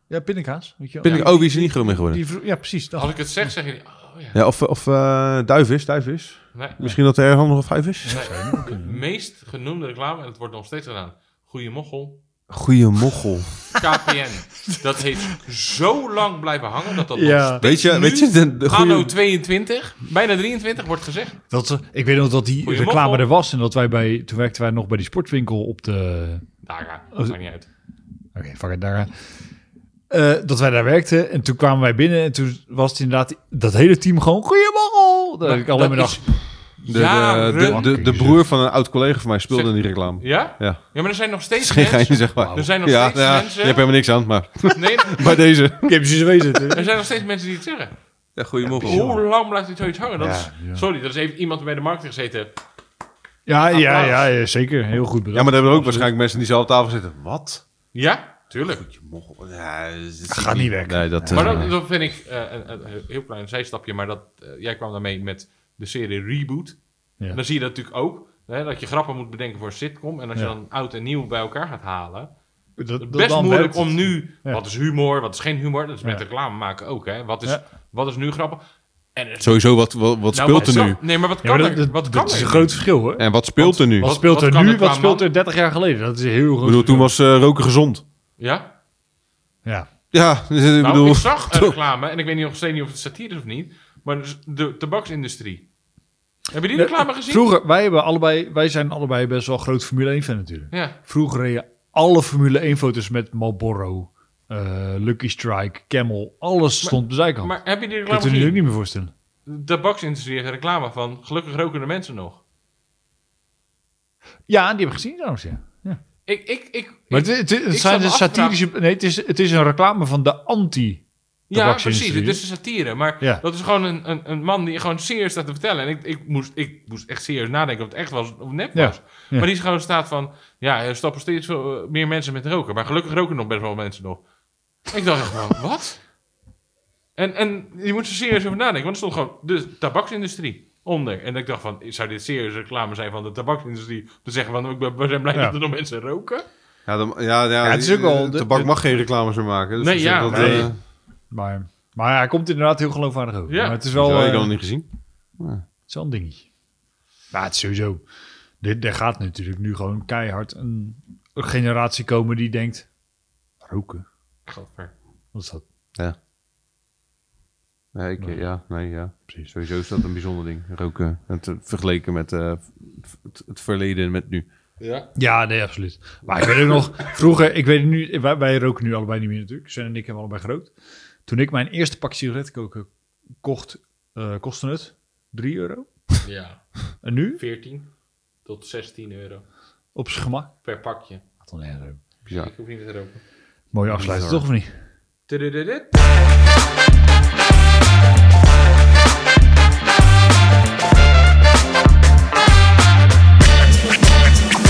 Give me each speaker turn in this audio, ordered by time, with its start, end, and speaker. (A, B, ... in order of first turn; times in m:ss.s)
0:00.1-0:03.2 A
0:01.0-0:02.2 B
0:01.0-0:01.3 C
0:03.0-0:04.4 C
0:04.3-0:08.3 B
0:06.5-0:06.9 C
0:08.0-0:09.0 A
0:08.1-0:12.2 C
0:12.5-0:13.6 B
0:13.8-0:21.4 C
0:14.7-0:15.4 A
0:17.1-0:17.6 A
0:17.6-0:19.1 B
0:21.5-0:26.4 A
0:22.6-0:23.3 C
0:26.6-0:27.7 C
0:28.4-0:29.1 A
0:30.1-0:36.4 A
0:35.4-0:36.3 C
0:36.8-0:37.9 C
0:36.9-0:40.8 B
0:37.6-0:38.4 A
0:39.5-0:43.8 C
0:41.6-0:45.9 B
0:44.7-0:45.4 C
0:45.8-0:46.9 A
0:46.7-0:47.9 C
0:48.4-0:49.1 B
0:48.7-0:52.5 C
0:48.8-0:49.2 A
0:50.2-0:50.8 A
0:53.5-0:56.1 A
0:53.7-0:54.3 C
0:55.3-0:57.6 B
0:57.9-0:58.8 C
0:58.7-1:01.7 B
1:00.3-1:01.7 A
1:01.3-1:06.8 C
1:07.3-1:12.3 C
1:12.8-1:14.6 A
1:13.0-1:18.6 C
1:19.2-1:19.6 C
1:19.4-1:21.0 B
1:20.3-1:22.8 C
1:20.6-1:20.9 A
1:21.4-1:27.1 A
1:23.2-1:24.1 B
1:24.0-1:25.3 C
1:26.6-1:28.0 B
1:28.4-1:28.7 C
1:30.1-1:31.8 B
1:30.8-1:35.7 C
1:36.5-1:37.5 C
1:36.8-1:47.5 A
1:40.7-1:41.0 C
1:46.8-1:48.6 C
1:48.1-1:49.1 A
1:49.5-1:52.4 C
1:54.5-1:56.0 A
1:56.3-1:58.6 C
1:57.1-2:02.4 A
2:01.5-2:14.2 C
2:08.8-2:09.5 A
2:14.9-2:16.0 C
2:17.2-2:26.4 C
2:26.9-2:30.8 B
2:27.6-2:28.7 A
2:29.8-2:30.7 C
2:30.3-2:30.7 A
2:31.3-2:34.5 A
2:33.5-2:33.8 C
2:33.9-2:34.9 B
2:35.4-2:35.6 B
2:35.9-2:36.5 A
2:37.3-2:38.0 A
2:38.6-2:42.9 A
2:43.6-2:44.0 A
2:44.5-2:44.9 C
2:45.3-2:45.6 A
2:48.0-2:54.5 B
2:54.8-2:55.1 C
2:55.2-3:00.7 A
3:01.3-3:02.9 A
3:03.4-3:05.9 A
3:06.2-3:07.9 C
3:07.0-3:07.4 A
3:08.4-3:09.5 C
3:10.0-3:10.5 A
3:10.6-3:11.2 C
3:11.4-3:12.0 A
3:12.3-3:13.2 C
3:13.7-3:14.7 A
3:13.9-3:14.4 B
3:15.3-3:15.9 C